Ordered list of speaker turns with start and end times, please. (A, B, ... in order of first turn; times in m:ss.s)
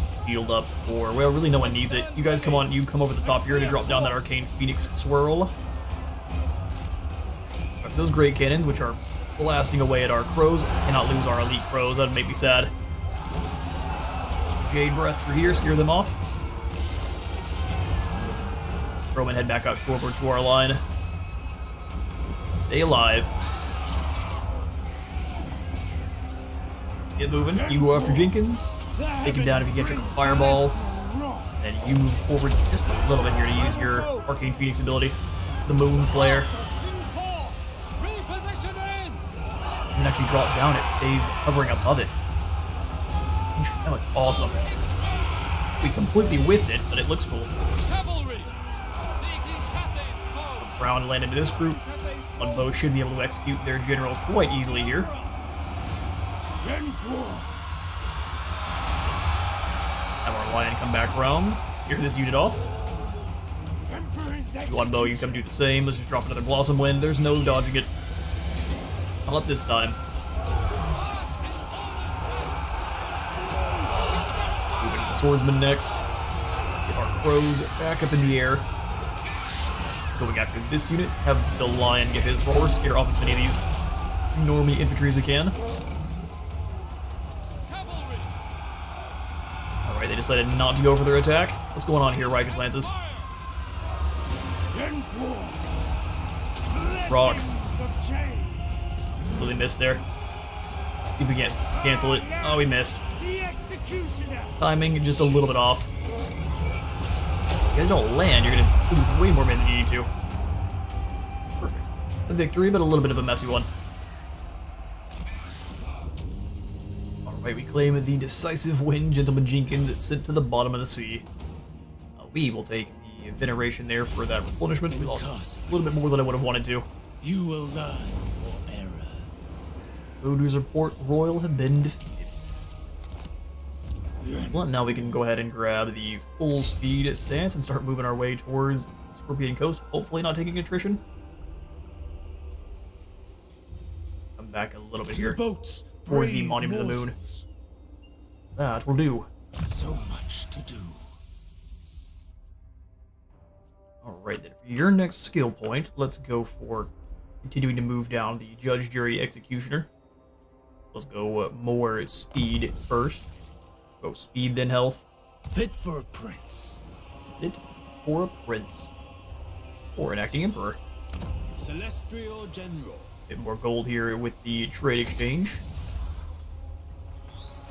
0:00.2-0:05.5 A
0:01.5-0:04.3 B
0:07.8-0:12.7 A
0:14.6-0:16.2 A
0:19.1-0:20.8 A
0:22.7-0:23.3 A
0:27.2-0:30.8 A
0:27.5-0:28.4 B
0:28.9-0:31.6 B
0:31.6-0:36.5 A
0:33.5-0:34.3 B
0:35.9-0:39.2 B
0:39.9-0:42.1 A
0:43.5-0:44.6 A
0:44.2-0:45.4 B
0:45.8-0:47.5 A
0:47.8-0:48.5 B
0:49.2-0:50.6 B
0:50.6-0:51.8 A
0:51.2-0:52.9 B
0:52.4-0:55.1 A
0:54.1-0:55.3 B
0:56.6-0:57.5 B
1:00.2-1:02.6 A
1:03.8-1:05.5 B
1:04.7-1:07.9 A
1:09.2-1:10.0 A
1:11.1-1:15.2 B
1:14.8-1:16.0 A
1:16.9-1:18.6 A
1:20.2-1:23.6 A
1:24.3-1:25.6 A
1:27.7-1:28.3 B
1:29.8-1:33.0 A
1:34.7-1:35.7 B
1:36.6-1:38.8 B
1:37.1-1:37.4 A
1:39.3-1:40.0 A
1:41.1-1:43.0 A
1:41.7-1:44.6 B
1:44.6-1:45.9 A
1:47.7-1:50.1 A
1:51.6-1:53.7 A
1:57.2-2:01.2 A
2:02.2-2:06.9 A
2:04.9-2:06.0 B
2:07.2-2:09.2 B
2:10.2-2:12.3 A
2:14.2-2:15.2 B
2:14.5-2:21.0 A
2:24.4-2:25.4 A
2:25.1-2:27.4 B
2:26.1-2:27.2 A
2:28.6-2:29.3 A
2:29.6-2:31.0 B
2:34.0-2:36.9 A
2:37.4-2:39.9 A
2:40.9-2:43.2 A
2:44.0-2:45.0 A
2:45.5-2:46.8 B
2:47.4-2:48.9 A
2:50.0-2:50.8 A
2:51.6-2:53.1 B
2:53.3-2:55.6 A